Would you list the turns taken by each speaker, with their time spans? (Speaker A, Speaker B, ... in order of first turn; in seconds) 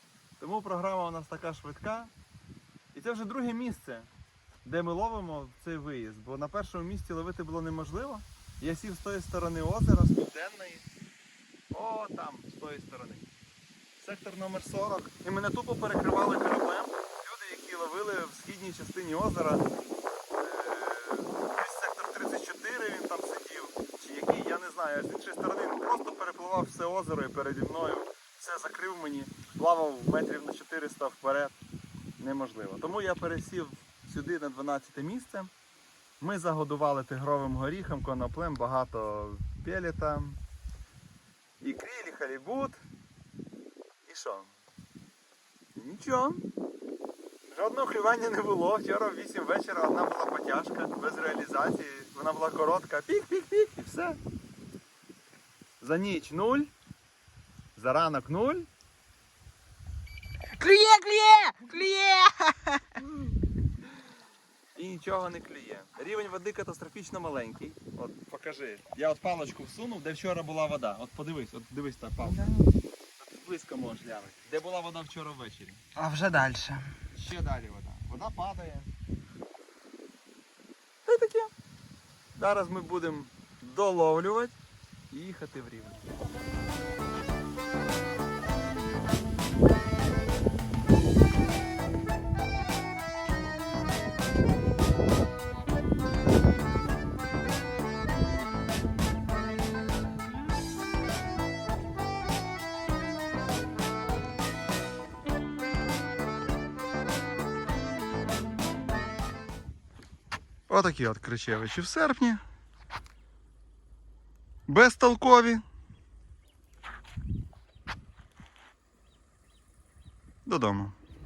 Speaker A: 0.4-2.1, 2.9-4.1, 4.6-10.8, 11.7-13.3, 14.0-19.7, 20.4-31.6, 32.2-35.5, 36.2-40.4, 41.6-42.8, 44.1-44.6, 45.8-46.5, 47.5-54.2, 55.8-56.7, 57.8-58.7, 64.8-72.6, 73.2-75.9, 77.1-78.9, 81.1-81.5, 82.3-84.6, 85.1-86.0, 110.7-112.4, 114.7-115.6, 120.5-121.0
Speaker B: 60.5-63.1, 72.4-72.7, 76.0-77.0